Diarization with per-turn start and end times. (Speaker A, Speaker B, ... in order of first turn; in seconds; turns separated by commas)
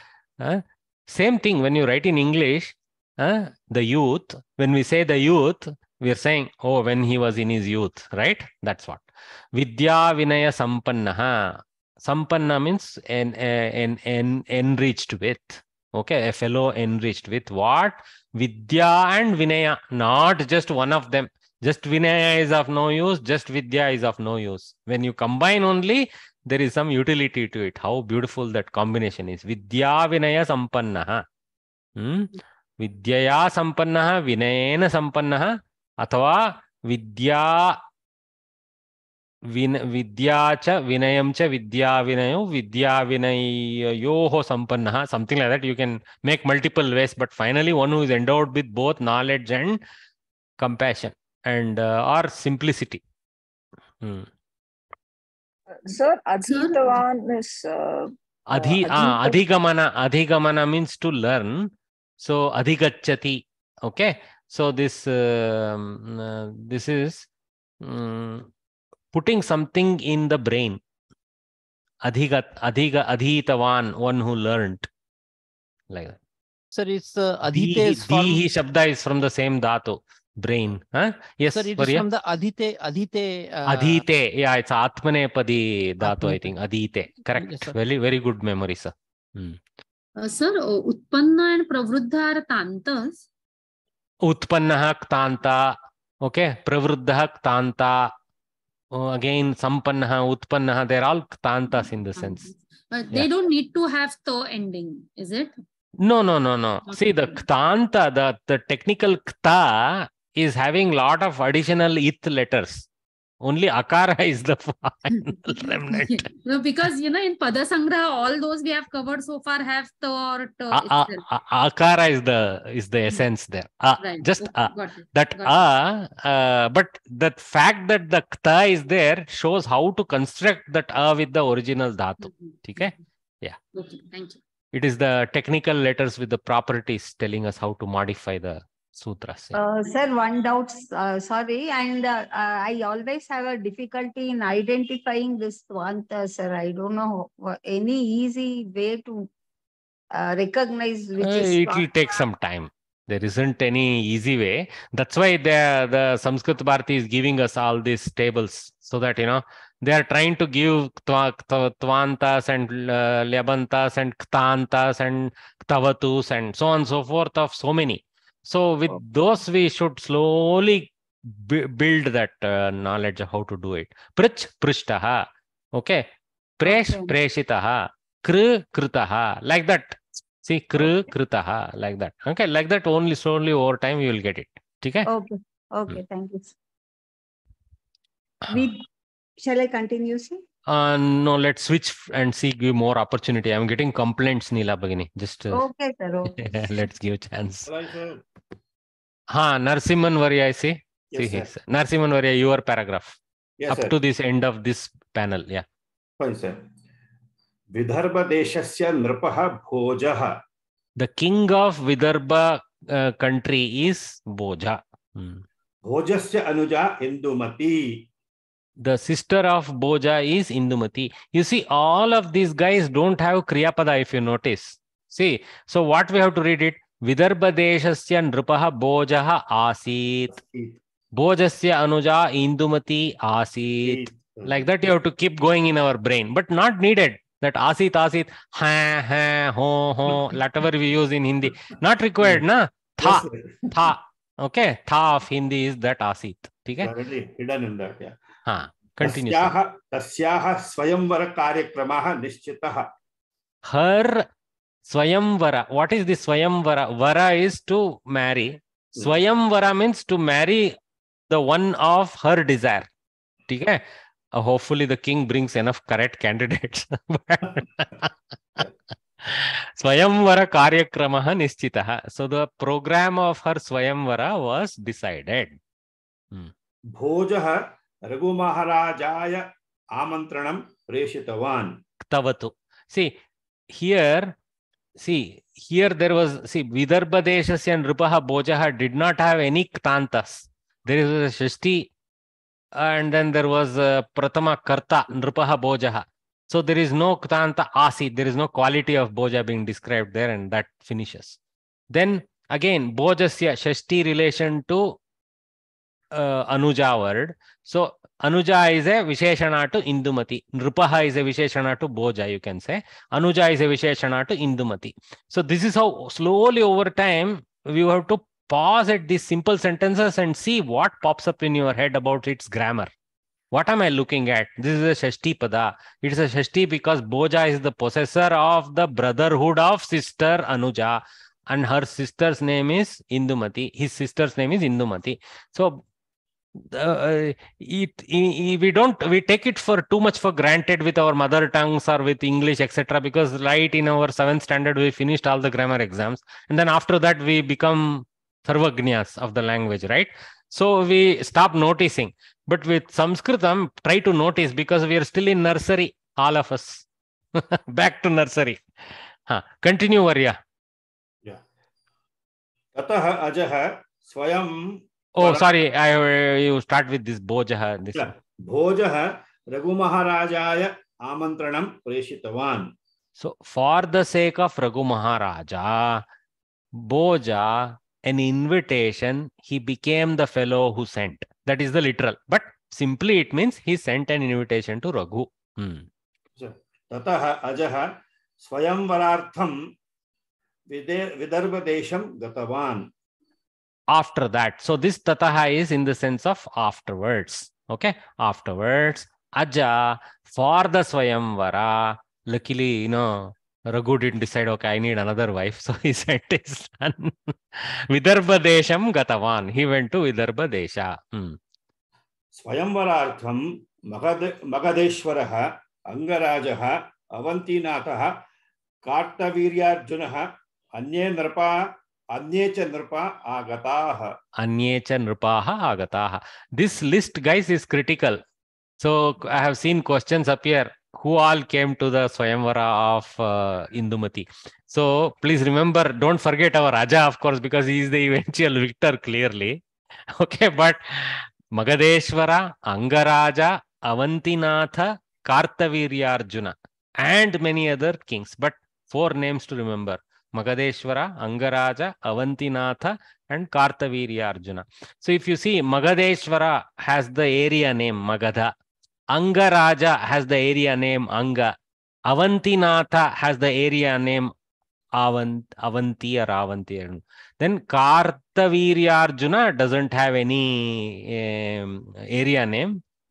Speaker A: 0.4-31.2, Speaker A: 32.0-37.8, Speaker A: 39.5-49.8, Speaker A: 50.6-53.0, Speaker A: 54.0-54.3, Speaker B: 55.8-59.4, Speaker C: 56.5-56.9, Speaker A: 58.5-61.7, Speaker A: 62.2-67.3, Speaker A: 67.8-68.5, Speaker A: 69.1-70.8, Speaker A: 72.0-74.9, Speaker A: 75.9-76.2, Speaker D: 76.7-78.4, Speaker A: 77.5-82.1, Speaker D: 81.5-84.0, Speaker A: 83.7-89.6, Speaker D: 86.0-86.6, Speaker D: 87.3-87.8, Speaker C: 90.2-93.2, Speaker A: 94.2-95.7, Speaker A: 96.2-98.0, Speaker A: 99.0-102.5, Speaker C: 101.7-105.6, Speaker A: 106.0-112.9, Speaker C: 106.9-107.4, Speaker A: 113.4-116.3, Speaker C: 115.2-121.3, Speaker A: 120.7-133.6, Speaker C: 124.0-125.6, Speaker C: 132.2-132.9, Speaker C: 133.7-134.4, Speaker A: 134.7-139.6, Speaker E: 139.6-149.3, Speaker E: 150.2-151.9, Speaker A: 151.2-175.2, Speaker A: 175.8-176.0, Speaker A: 176.6-185.1, Speaker E: 176.7-177.1, Speaker E: 185.1-186.5, Speaker E: 188.5-188.8, Speaker E: 189.4-190.4, Speaker A: 190.7-195.6, Speaker E: 195.5-196.4, Speaker A: 196.3-197.7, Speaker F: 197.7-198.2, Speaker A: 199.3-203.2, Speaker F: 201.1-201.5, Speaker F: 203.6-203.9, Speaker A: 203.7-205.7, Speaker F: 206.2-206.6, Speaker F: 207.8-210.3, Speaker A: 211.0-215.4, Speaker F: 215.9-217.8, Speaker A: 218.8-230.3, Speaker F: 230.3-230.7, Speaker A: 231.2-246.9, Speaker F: 233.8-234.6, Speaker F: 243.0-243.9, Speaker F: 246.8-248.2, Speaker A: 248.5-249.5, Speaker F: 249.0-252.8, Speaker A: 253.7-254.2, Speaker A: 254.9-260.7, Speaker A: 261.3-262.9, Speaker A: 263.5-263.8, Speaker A: 264.4-268.6, Speaker A: 269.2-275.6, Speaker F: 277.0-277.6, Speaker F: 278.1-279.4, Speaker F: 280.0-281.7, Speaker A: 282.1-283.1, Speaker A: 283.7-284.3, Speaker A: 285.0-291.9, Speaker A: 292.8-301.4, Speaker A: 301.9-304.9, Speaker A: 306.1-322.9, Speaker A: 323.5-335.8, Speaker A: 336.6-356.8, Speaker A: 357.4-358.6, Speaker A: 359.3-360.4, Speaker F: 362.8-364.6, Speaker A: 365.2-368.1, Speaker F: 365.2-365.5, Speaker F: 368.0-372.7, Speaker A: 373.2-376.0, Speaker A: 376.8-385.9, Speaker F: 386.4-387.9, Speaker F: 388.4-389.5, Speaker F: 390.7-392.8, Speaker A: 393.9-411.4, Speaker F: 412.4-413.4, Speaker F: 413.9-418.1, Speaker F: 418.9-420.2, Speaker F: 420.8-421.5, Speaker F: 422.1-424.1, Speaker A: 424.4-428.2, Speaker A: 428.8-439.6, Speaker A: 440.2-458.5, Speaker A: 459.1-461.5, Speaker A: 462.1-464.3, Speaker A: 465.0-472.8